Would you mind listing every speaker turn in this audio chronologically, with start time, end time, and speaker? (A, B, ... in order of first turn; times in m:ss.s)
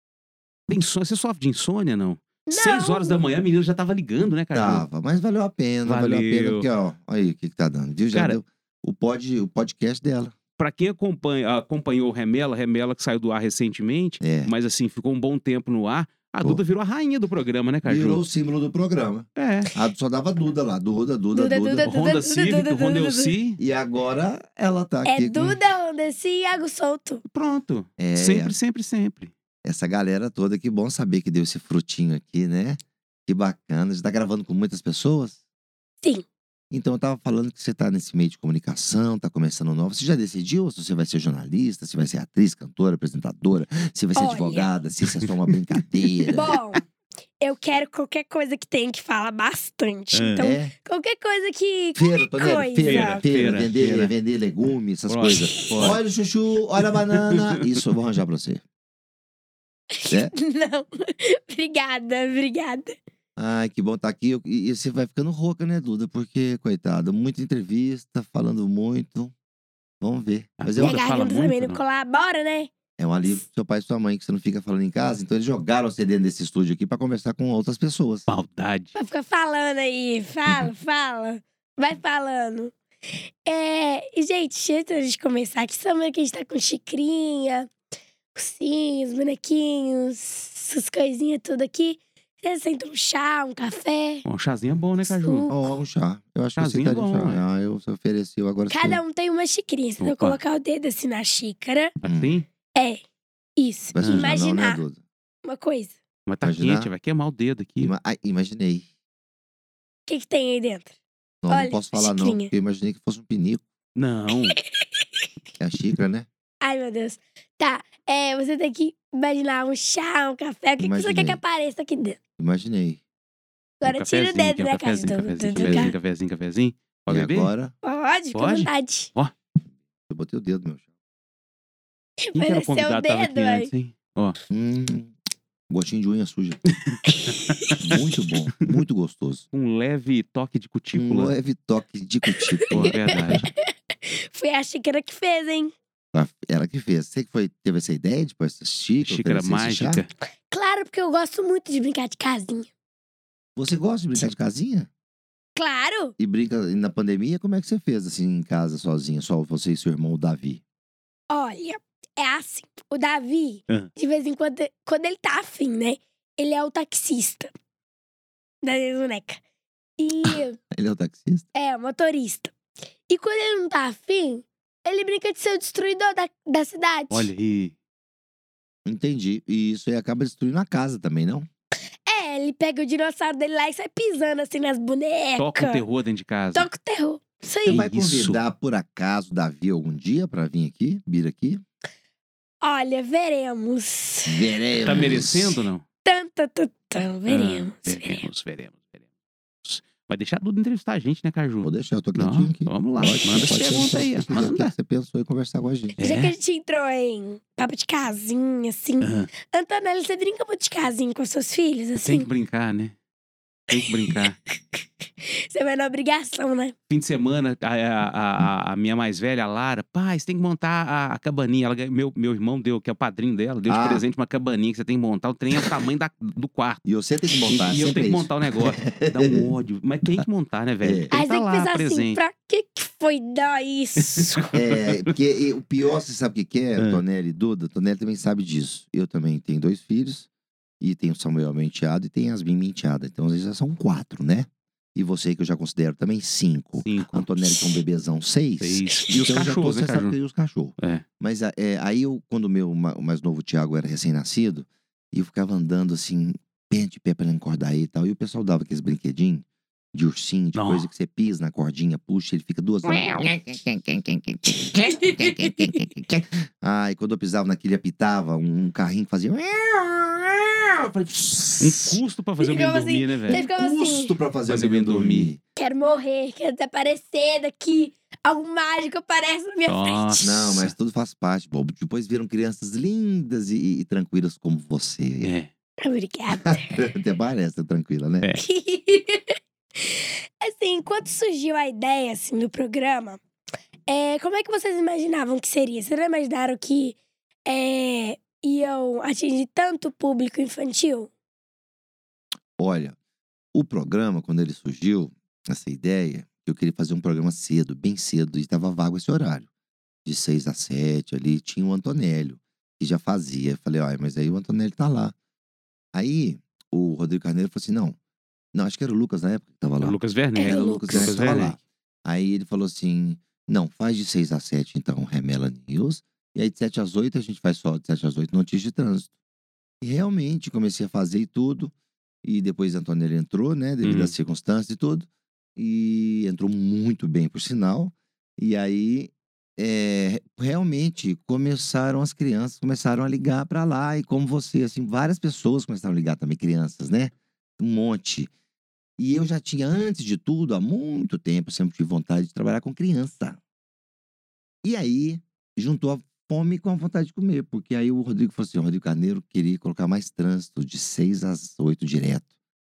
0:00.7-0:04.8 A
0:02.5-0:03.2 B
0:04.5-0:10.4 C
0:05.9-0:06.6 A
0:08.1-0:08.4 A
0:10.6-0:18.2 A
0:14.2-0:14.5 C
0:17.8-0:21.9 C
0:19.4-0:19.7 A
0:21.3-0:23.4 B
0:21.8-0:23.6 A
0:23.6-0:25.6 C
0:25.0-0:27.2 B
0:27.3-0:29.3 A
0:28.0-0:28.6 C
0:29.6-0:35.4 C
0:36.7-0:46.5 C
0:44.2-0:44.7 B
0:46.2-0:46.6 A
0:46.3-0:46.9 B
0:47.4-0:53.2 B
0:50.1-0:50.4 A
0:50.4-0:50.7 C
0:52.0-0:58.6 C
0:52.8-0:54.1 A
0:55.1-0:56.0 A
0:55.3-0:55.8 B
0:56.8-0:57.6 A
0:59.9-1:03.0 B
1:03.4-1:09.3 C
1:10.0-1:11.0 C
1:10.6-1:11.8 A
1:10.8-1:12.7 B
1:13.0-1:18.3 C
1:18.3-1:19.0 A
1:19.0-1:22.7 B
1:23.5-1:27.7 B
1:28.3-1:34.2 B
1:34.3-1:35.5 A
1:35.0-1:35.8 B
1:35.5-1:39.0 C
1:36.6-1:37.4 A
1:38.7-1:41.9 B
1:40.0-1:40.4 A
1:42.0-1:42.5 A
1:42.0-1:42.3 C
1:42.8-1:43.0 B
1:43.6-1:44.8 B
1:43.9-1:45.0 C
1:44.0-1:44.3 A
1:45.5-1:46.0 B
1:46.3-1:47.9 A
1:46.4-1:46.9 C
1:47.8-1:48.9 C
1:50.1-1:50.9 B
1:51.4-1:53.6 C
1:51.5-1:52.5 B
1:54.0-1:54.6 A
1:54.7-1:55.2 B
1:55.6-1:56.3 C
1:56.6-2:02.2 B
2:00.8-2:01.4 C
2:02.4-2:03.0 C
2:03.8-2:06.0 B
2:03.8-2:07.5 A
2:05.6-2:05.9 C
2:07.1-2:07.7 C
2:07.8-2:09.1 B
2:08.4-2:09.3 A
2:10.1-2:10.8 C
2:12.2-2:13.7 B
2:12.4-2:14.4 A
2:14.5-2:15.1 C
2:15.7-2:16.6 C
2:16.9-2:17.4 A
2:17.1-2:17.8 B
2:17.8-2:19.5 C
2:19.5-2:21.3 A
2:20.9-2:23.5 C
2:22.3-2:25.7 B
2:22.7-2:23.4 A
2:26.1-2:30.0 C
2:29.0-2:30.1 A
2:30.5-2:32.7 B
2:33.6-2:34.9 C
2:35.6-2:36.2 B
2:36.2-2:40.6 C
2:41.3-2:47.5 B
2:48.6-2:49.4 B
2:50.0-2:50.6 B
2:50.7-2:51.5 C
2:51.6-2:52.5 B
2:53.1-2:57.3 B
2:57.1-2:57.8 A
2:58.9-3:01.5 C
3:02.1-3:05.8 B
3:05.4-3:06.7 A
3:06.5-3:07.8 B
3:07.7-3:11.6 C
3:07.7-3:08.4 A
3:12.6-3:14.4 B
3:14.3-3:15.6 C
3:14.8-3:15.8 A
3:16.0-3:18.3 B
3:17.3-3:19.0 A
3:19.6-3:24.7 A
3:21.6-3:26.0 C
3:26.0-3:32.3 B
3:26.0-3:26.3 A
3:29.0-3:29.3 A
3:32.0-3:32.9 A
3:33.7-3:34.4 A
3:33.8-3:36.7 B
3:36.9-3:46.8 A
3:43.7-3:44.0 C
3:45.6-3:45.8 C
3:46.8-3:49.5 C
3:47.5-3:52.2 A
3:50.8-3:51.1 C
3:51.1-3:54.4 B
3:54.0-3:55.0 A
3:54.5-4:00.3 C
4:00.8-4:32.0 C
4:06.8-4:07.8 A
4:08.6-4:10.2 A
4:10.8-4:11.0 A
4:20.6-4:20.9 A
4:31.6-4:33.4 A
4:32.4-4:34.2 B
4:33.3-4:35.4 C
4:34.5-4:35.3 A
4:35.6-4:40.2 B
4:39.7-4:40.7 A
4:40.2-4:45.3 C
4:45.2-4:45.5 A
4:45.8-4:46.8 B
4:46.4-4:48.3 C
4:48.4-4:53.2 B
4:53.9-5:01.1 B
5:02.6-5:03.0 C
5:03.5-5:09.5 C
5:10.0-5:15.2 C
5:15.9-5:18.0 C
5:18.5-5:29.1 C
5:19.8-5:21.6 A
5:20.4-5:21.4 B
5:29.8-5:31.7 C
5:32.2-5:48.3 C
5:33.8-5:34.1 A
5:49.0-5:53.4 C
5:54.6-6:02.3 C